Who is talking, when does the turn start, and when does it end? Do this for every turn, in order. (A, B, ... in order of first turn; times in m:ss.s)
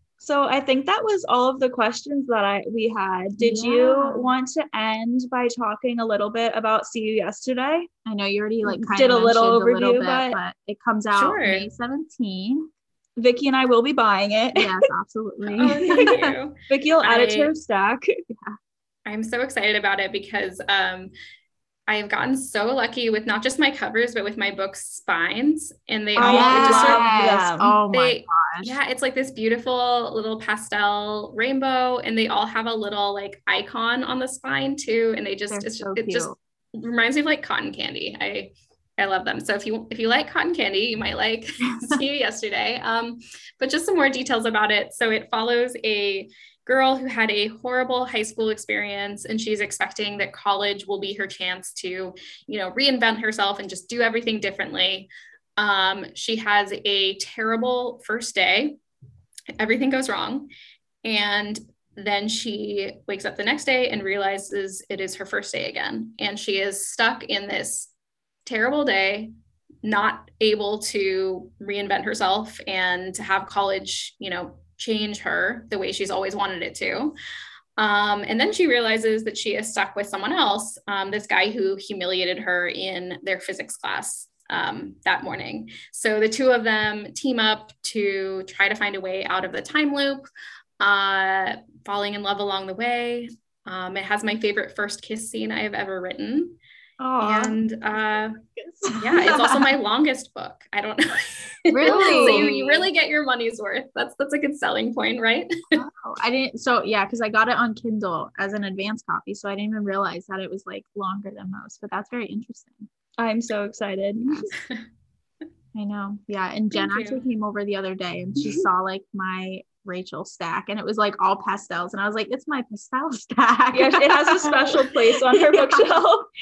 0:00.2-0:07.9 A
0:03.4-0:04.3 B
0:08.0-0:12.7 B
0:08.6-0:10.4 A
0:11.1-0:11.7 C
0:13.2-0:14.7 A
0:14.5-0:16.3 B
0:15.5-0:17.5 C
0:16.7-0:18.1 A
0:19.0-0:21.1 C
0:21.9-0:27.2 C
0:26.2-0:28.8 B
0:26.2-0:27.8 A
0:27.9-0:58.8 C
0:35.5-0:36.4 B
0:59.6-1:00.5 C
1:01.0-1:07.9 C
1:08.4-1:09.3 C
1:09.8-1:17.2 C
1:17.8-1:30.2 C
1:30.8-1:36.6 C
1:37.0-1:37.6 B
1:37.2-1:38.4 C
1:38.6-1:39.4 B
1:39.0-1:45.8 C
1:41.7-1:42.9 B
1:41.8-1:42.6 A
1:45.7-1:52.9 B
1:53.2-1:54.5 A
1:54.2-1:54.5 B
1:55.7-2:05.9 B
1:56.7-1:57.2 C
2:03.7-2:06.3 A